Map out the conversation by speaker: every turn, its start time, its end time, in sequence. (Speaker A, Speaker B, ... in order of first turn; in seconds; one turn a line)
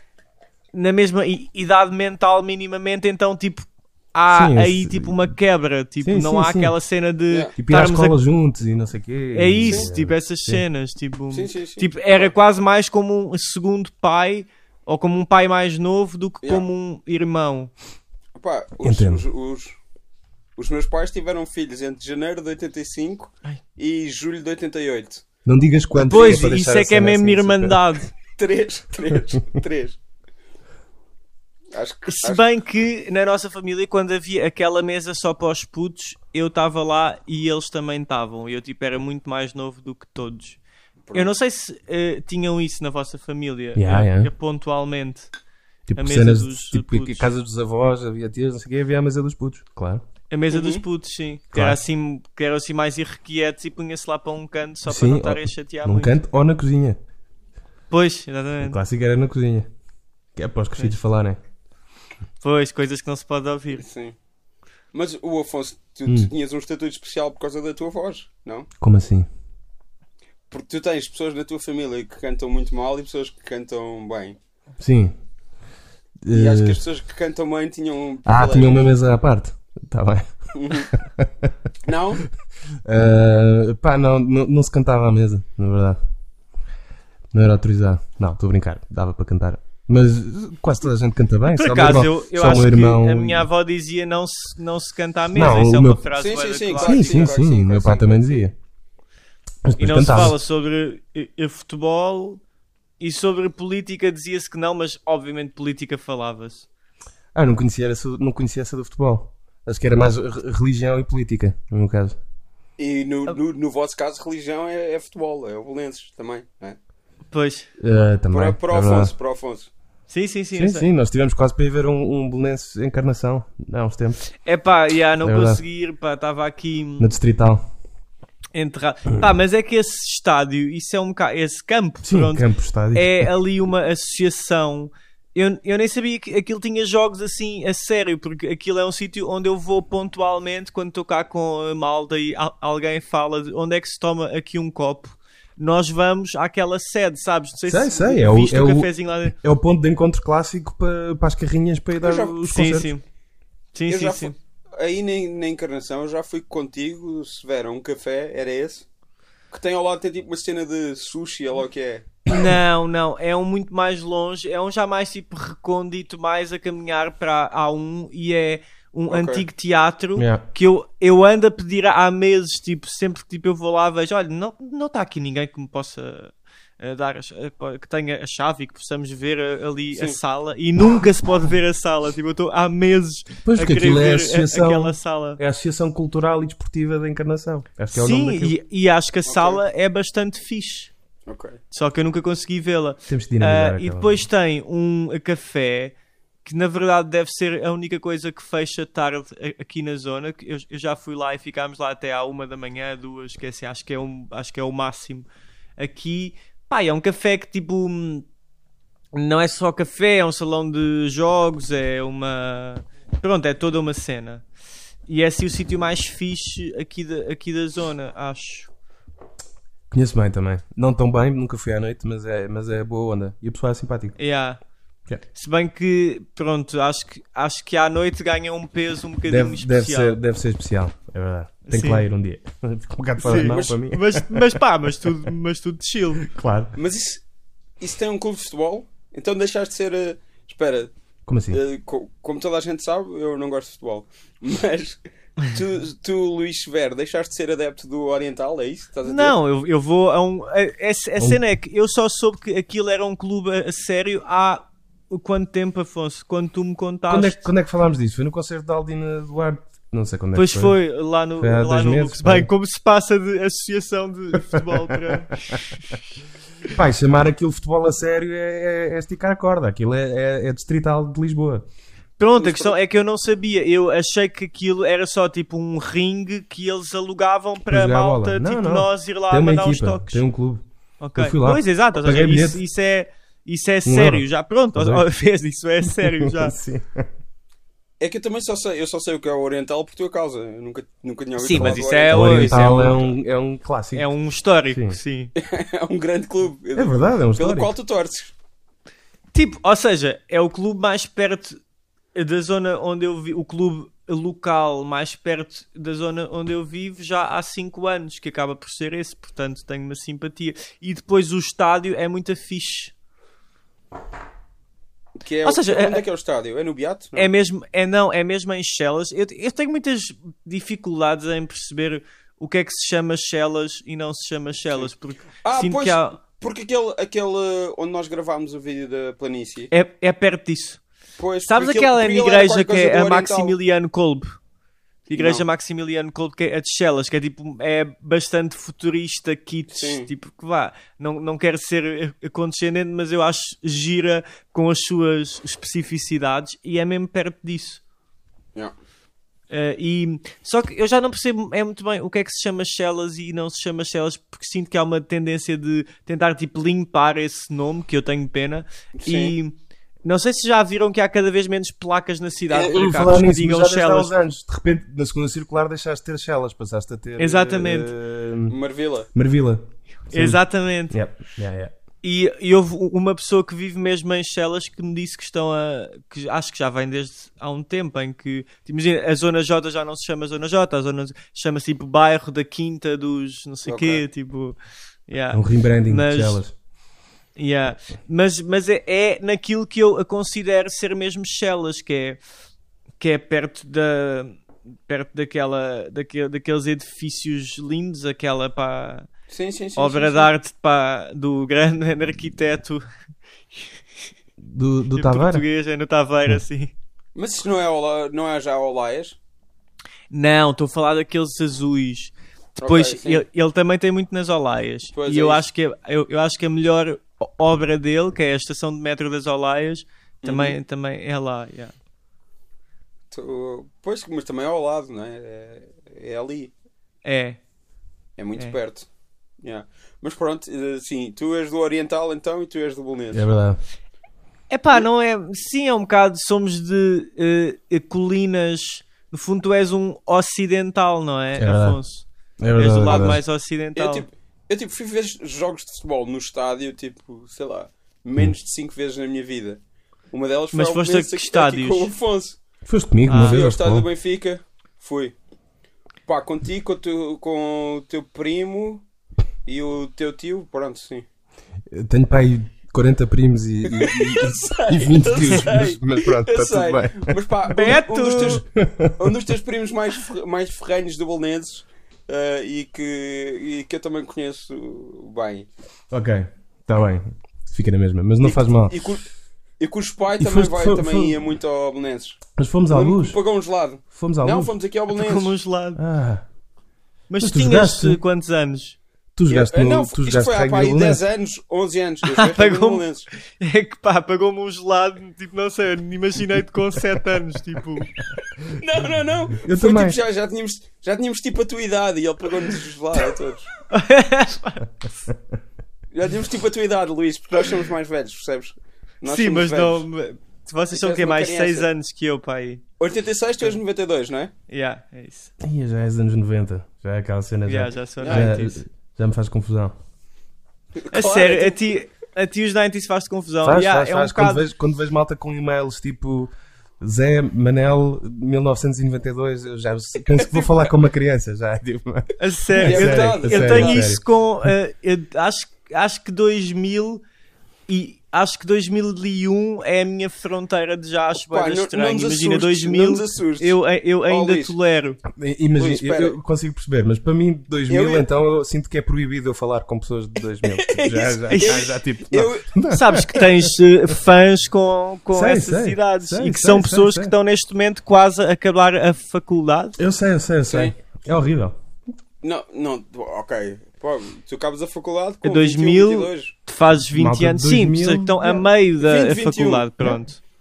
Speaker A: 0.7-8.2
Speaker B: 4.3-5.3
Speaker B: 6.0-6.7
Speaker B: 7.6-10.6
Speaker A: 9.3-17.7
Speaker C: 11.3-12.3
Speaker C: 18.4-19.8
Speaker B: 18.8-19.2
Speaker C: 20.6-25.2
Speaker B: 25.4-27.8
Speaker A: 26.0-28.1
Speaker C: 28.3-30.0
Speaker C: 31.7-32.4
Speaker A: 32.0-40.6
Speaker C: 41.1-41.3
Speaker A: 41.1-45.3
Speaker B: 43.8-44.3
Speaker B: 45.9-50.0
Speaker A: 46.0-47.3
Speaker A: 50.3-56.2
Speaker C: 50.5-50.8
Speaker B: 51.5-51.8
Speaker B: 54.9-57.0
Speaker A: 57.9-58.8
Speaker B: 58.6-59.7
Speaker B: 60.3-61.4
Speaker A: 62.4-63.8
Speaker C: 63.8-64.2
Speaker C: 64.9-68.7
Speaker B: 66.0-66.3
Speaker B: 68.8-69.3
Speaker C: 70.5-74.4
Speaker B: 74.8-75.2
Speaker B: 76.2-76.8
Speaker C: 76.3-78.9
Speaker B: 78.2-80.3
Speaker C: 80.5-80.9
Speaker B: 80.9-81.5
Speaker C: 81.8-82.2
Speaker B: 82.8-86.0
Speaker B: 87.3-93.5
Speaker A: 91.5-97.3
Speaker B: 95.3-96.0
Speaker C: 96.2-98.5
Speaker B: 96.8-98.5
Speaker B: 99.6-100.4
Speaker A: 99.8-102.4
Speaker A: 103.0-106.7
Speaker B: 107.3-112.2
Speaker C: 112.8-116.8
Speaker A: 117.3-117.7
Speaker B: 117.8-119.1
Speaker C: 118.3-119.7
Speaker A: 120.1-120.9
Speaker B: 120.5-124.2
Speaker A: 124.4-127.1
Speaker B: 125.2-125.6
Speaker B: 127.0-127.7
Speaker A: 128.5-149.3
Speaker B: 132.0-133.3
Speaker B: 147.7-152.9
Speaker C: 152.0-152.4
Speaker A: 152.4-153.0
Speaker A: 153.7-154.3
Speaker C: 153.9-158.8
Speaker C: 159.5-162.2
Speaker A: 162.3-185.4
Speaker C: 169.1-169.4
Speaker B: 170.2-170.4
Speaker C: 179.9-180.2
Speaker B: 183.4-188.6
Speaker A: 187.9-190.9
Speaker C: 189.2-189.6
Speaker C: 191.3-191.6
Speaker A: 191.7-205.2
Speaker B: 193.1-194.2
Speaker A: 205.8-208.2
Speaker A: 209.1-214.4
Speaker A: 215.1-218.7
Speaker B: 219.9-224.2
Speaker A: 224.2-224.6
Speaker A: 225.3-230.2
Speaker B: 229.2-235.1
Speaker A: 231.7-232.0
Speaker A: 233.2-236.3
Speaker C: 233.3-233.8
Speaker B: 236.2-236.7
Speaker C: 236.8-237.2
Speaker C: 237.8-240.9
Speaker B: 241.2-241.6
Speaker C: 241.5-249.3
Speaker A: 249.0-257.4
Speaker B: 257.1-260.8
Speaker A: 260.3-266.0
Speaker B: 261.4-262.5
Speaker B: 264.5-265.6
Speaker B: 266.7-271.6
Speaker A: 272.2-280.2
Speaker C: 272.4-272.8
Speaker B: 277.7-280.6
Speaker A: 281.0-286.6
Speaker B: 281.2-282.6
Speaker B: 283.8-285.1
Speaker B: 285.8-287.1
Speaker C: 288.0-293.1
Speaker A: 291.4-293.0
Speaker B: 291.5-294.1
Speaker A: 293.9-295.3
Speaker B: 294.7-295.0
Speaker C: 295.4-298.3
Speaker B: 296.7-297.7
Speaker A: 299.3-301.6
Speaker A: 302.1-312.9
Speaker C: 315.2-317.3
Speaker A: 315.4-316.0
Speaker A: 317.1-326.2
Speaker C: 325.4-329.7
Speaker A: 329.7-330.8
Speaker C: 331.2-333.6
Speaker A: 331.4-334.4
Speaker A: 335.1-347.8
Speaker C: 335.2-335.4
Speaker C: 339.7-340.1
Speaker A: 349.5-364.1
Speaker C: 358.9-359.3
Speaker B: 362.5-368.6
Speaker A: 367.2-367.9
Speaker C: 368.5-369.1
Speaker B: 369.1-371.7
Speaker A: 370.1-371.0
Speaker A: 372.0-384.6
Speaker C: 383.6-384.0
Speaker A: 385.1-386.4
Speaker B: 385.3-386.5
Speaker A: 387.4-392.2
Speaker A: 393.0-399.1
Speaker C: 399.3-400.3
Speaker A: 399.8-402.8
Speaker B: 404.4-405.4
Speaker A: 404.9-406.7
Speaker C: 407.1-409.2
Speaker A: 410.1-421.7
Speaker C: 412.6-413.2
Speaker C: 414.9-415.4
Speaker C: 420.2-420.6
Speaker C: 423.1-426.5
Speaker A: 427.0-427.4
Speaker C: 428.2-428.9
Speaker C: 429.4-433.3
Speaker B: 433.1-433.6
Speaker A: 434.5-444.1
Speaker B: 441.4-441.8
Speaker B: 442.4-443.2
Speaker C: 442.9-443.2
Speaker C: 443.8-449.6
Speaker C: 450.1-452.4
Speaker A: 450.5-451.9
Speaker B: 452.6-453.9
Speaker A: 453.1-453.4
Speaker C: 453.1-455.1
Speaker C: 456.1-458.8
Speaker C: 459.4-461.0
Speaker B: 461.7-467.2
Speaker C: 463.6-468.4
Speaker A: 467.5-468.4
Speaker B: 467.7-469.1
Speaker C: 468.9-475.5
Speaker B: 475.9-478.8
Speaker C: 478.2-479.1
Speaker C: 479.6-485.3
Speaker B: 480.2-481.2
Speaker B: 482.4-483.2
Speaker B: 483.9-484.5
Speaker A: 484.9-485.8
Speaker B: 485.8-486.2
Speaker A: 487.1-488.8
Speaker B: 487.2-488.0
Speaker B: 489.1-491.0
Speaker C: 489.3-493.1
Speaker A: 492.1-497.9
Speaker C: 498.5-503.5
Speaker B: 499.4-500.0
Speaker A: 503.7-504.7
Speaker C: 505.9-509.9
Speaker A: 509.0-512.6
Speaker C: 510.7-511.7
Speaker C: 512.8-514.3
Speaker A: 514.5-515.3
Speaker B: 515.4-519.8
Speaker A: 517.5-518.6
Speaker C: 518.0-518.3
Speaker C: 520.8-521.6
Speaker A: 520.9-524.4
Speaker B: 523.4-534.5
Speaker C: 530.2-530.5
Speaker A: 532.2-537.0
Speaker C: 532.6-533.9
Speaker A: 537.7-545.0
Speaker C: 541.3-544.5
Speaker B: 545.0-553.5
Speaker C: 545.5-546.1
Speaker C: 547.7-548.1
Speaker C: 550.4-552.5
Speaker A: 551.3-551.6
Speaker A: 552.7-559.8
Speaker B: 555.1-557.1
Speaker B: 559.8-561.5
Speaker C: 560.5-560.7
Speaker C: 562.2-566.3
Speaker A: 565.2-570.2
Speaker B: 566.9-568.4
Speaker C: 568.8-569.7